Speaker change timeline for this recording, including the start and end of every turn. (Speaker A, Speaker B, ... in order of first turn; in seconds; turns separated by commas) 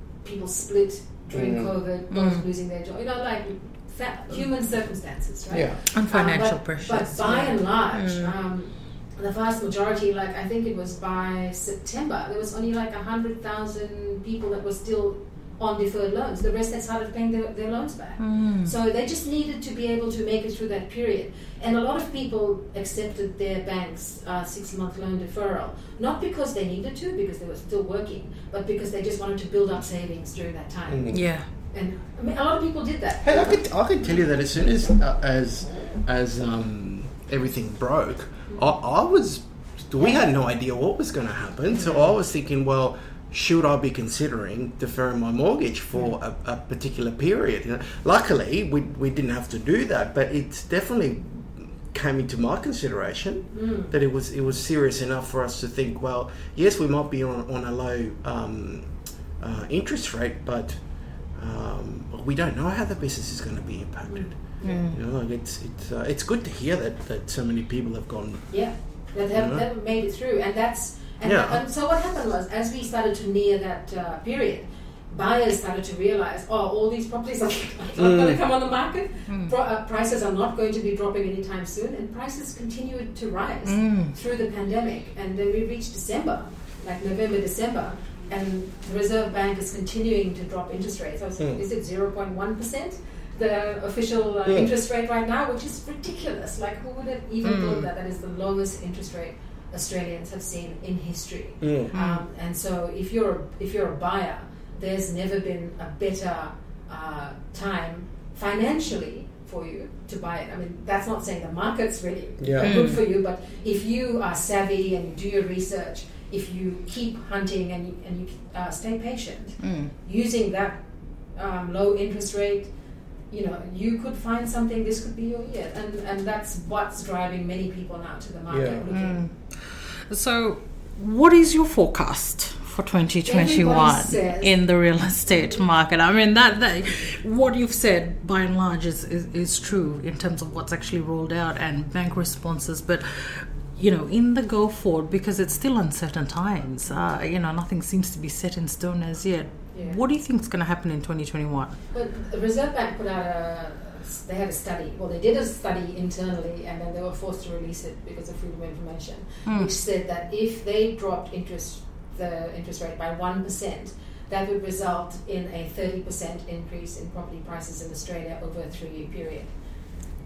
Speaker A: 0.2-33.6, Speaker B: 1.3-1.7, Speaker C: 2.1-2.4, Speaker B: 5.5-5.8, Speaker C: 5.9-8.3, Speaker C: 18.2-18.7, Speaker B: 30.9-31.2, Speaker C: 31.1-31.5, Speaker B: 33.2-60.8, Speaker A: 41.7-42.1, Speaker A: 53.5-53.9, Speaker B: 61.3-68.5, Speaker A: 64.1-64.9, Speaker C: 64.6-65.0, Speaker A: 68.5-120.8, Speaker B: 69.3-69.6, Speaker B: 71.2-71.6, Speaker B: 78.0-78.4, Speaker C: 79.3-79.5, Speaker C: 83.7-84.1, Speaker B: 94.4-94.7, Speaker C: 97.4-97.9, Speaker B: 101.6-101.9, Speaker C: 101.9-102.2, Speaker B: 112.4-112.8, Speaker C: 112.6-113.0, Speaker C: 119.6-119.9, Speaker A: 121.3-122.7, Speaker A: 123.3-129.2, Speaker B: 128.5-128.9, Speaker C: 128.9-151.8, Speaker A: 133.2-134.6, Speaker A: 135.3-135.6, Speaker A: 149.7-150.0, Speaker A: 151.9-169.5, Speaker C: 159.4-159.7